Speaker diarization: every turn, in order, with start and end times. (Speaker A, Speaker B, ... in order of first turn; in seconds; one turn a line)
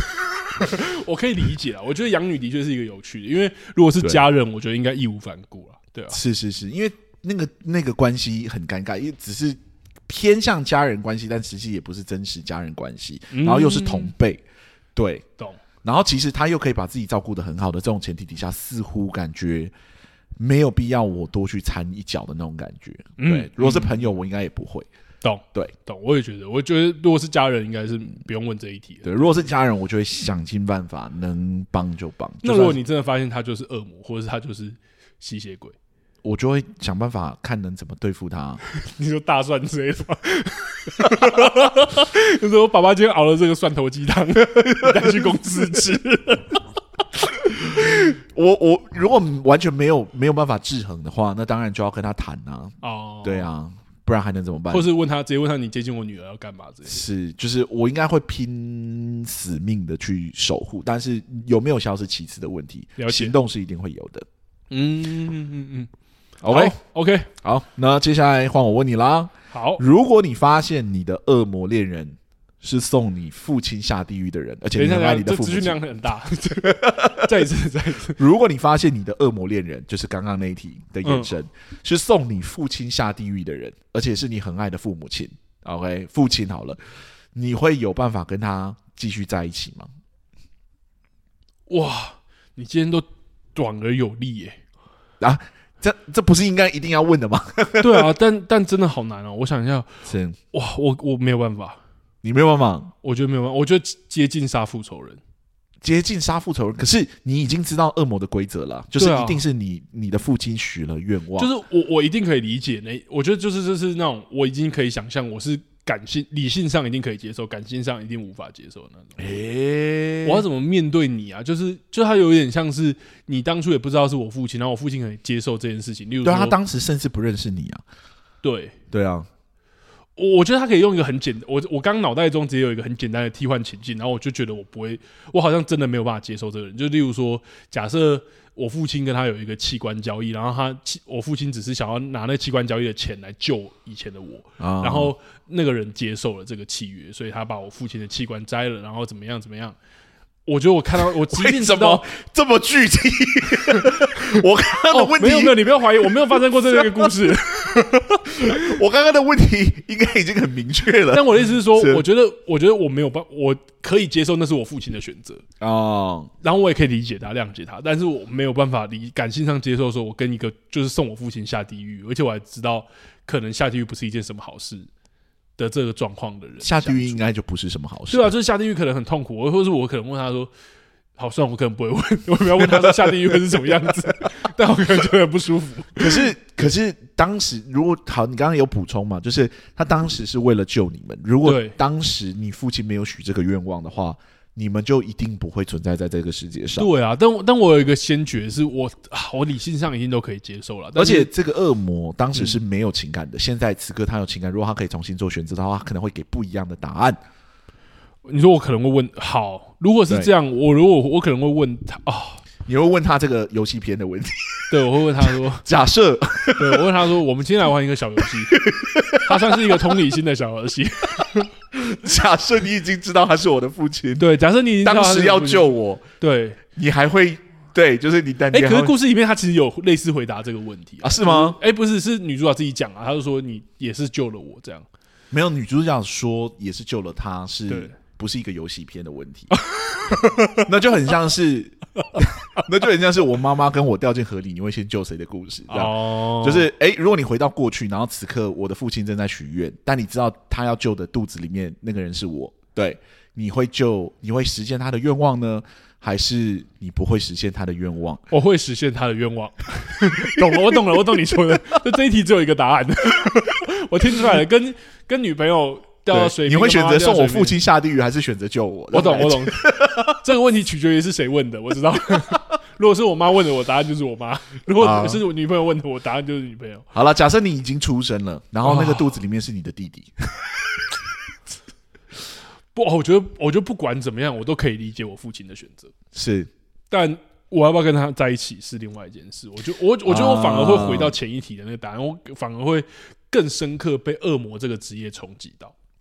Speaker A: 0.6-6.2
Speaker B: 6.1-14.4
Speaker A: 13.3-14.1
Speaker B: 14.9-15.2
Speaker B: 15.8-19.7
Speaker B: 20.4-24.9
Speaker A: 23.2-24.0
Speaker A: 25.2-29.3
Speaker B: 29.0-32.8
Speaker A: 32.4-35.8
Speaker B: 36.2-38.6
Speaker A: 38.7-46.6
Speaker B: 47.5-54.9
Speaker A: 47.6-48.0
Speaker A: 52.8-53.5
Speaker A: 54.7-57.0
Speaker B: 56.9-64.2
Speaker A: 63.0-63.3
Speaker A: 64.7-65.9
Speaker B: 66.4-66.8
Speaker A: 66.5-67.3
Speaker B: 67.4-75.8
Speaker A: 69.5-69.8
Speaker A: 74.8-78.2
Speaker B: 76.6-77.3
Speaker B: 78.2-86.8
Speaker A: 81.0-81.3
Speaker B: 87.3-89.9
Speaker A: 91.7-94.6
Speaker B: 95.2-98.1
Speaker A: 97.8-99.9
Speaker B: 100.0-100.4
Speaker A: 100.5-101.8
Speaker B: 102.2-102.9
Speaker A: 103.0-105.2
Speaker B: 105.8-111.5
Speaker A: 109.0-109.5
Speaker A: 111.4-119.3
Speaker B: 119.2-120.4
Speaker A: 120.2-126.5
Speaker B: 126.2-127.8
Speaker A: 128.4-128.8
Speaker B: 128.9-129.3
Speaker A: 130.2-149.8
Speaker B: 144.6-145.1
Speaker A: 150.4-152.0
Speaker B: 151.2-157.1
Speaker A: 154.9-158.8
Speaker B: 158.2-162.0
Speaker A: 161.1-165.4
Speaker B: 165.6-166.3
Speaker A: 166.4-174.9
Speaker A: 175.6-177.2
Speaker B: 176.6-178.3
Speaker A: 178.1-180.5
Speaker A: 181.2-186.3
Speaker B: 182.6-183.8
Speaker B: 186.0-196.9
Speaker A: 191.4-191.8
Speaker A: 196.8-201.3
Speaker B: 200.9-207.2
Speaker A: 208.2-212.4
Speaker B: 212.7-214.7
Speaker A: 214.7-215.6
Speaker B: 215.6-216.9
Speaker A: 216.6-218.6
Speaker B: 218.5-219.9
Speaker A: 219.1-221.5
Speaker B: 221.7-224.2
Speaker A: 224.2-226.6
Speaker B: 224.8-226.0
Speaker B: 226.8-228.9
Speaker A: 228.5-234.8
Speaker B: 231.0-231.6
Speaker B: 235.3-239.6
Speaker A: 237.7-237.9
Speaker A: 239.6-240.7
Speaker B: 240.5-258.2
Speaker A: 245.7-246.7
Speaker A: 258.3-267.6
Speaker B: 260.4-260.7
Speaker B: 266.1-270.2
Speaker A: 268.9-276.9
Speaker B: 274.8-275.2
Speaker B: 276.9-280.3
Speaker A: 278.6-279.1
Speaker A: 282.7-285.9
Speaker B: 286.1-286.5
Speaker A: 286.9-295.7
Speaker B: 290.1-291.1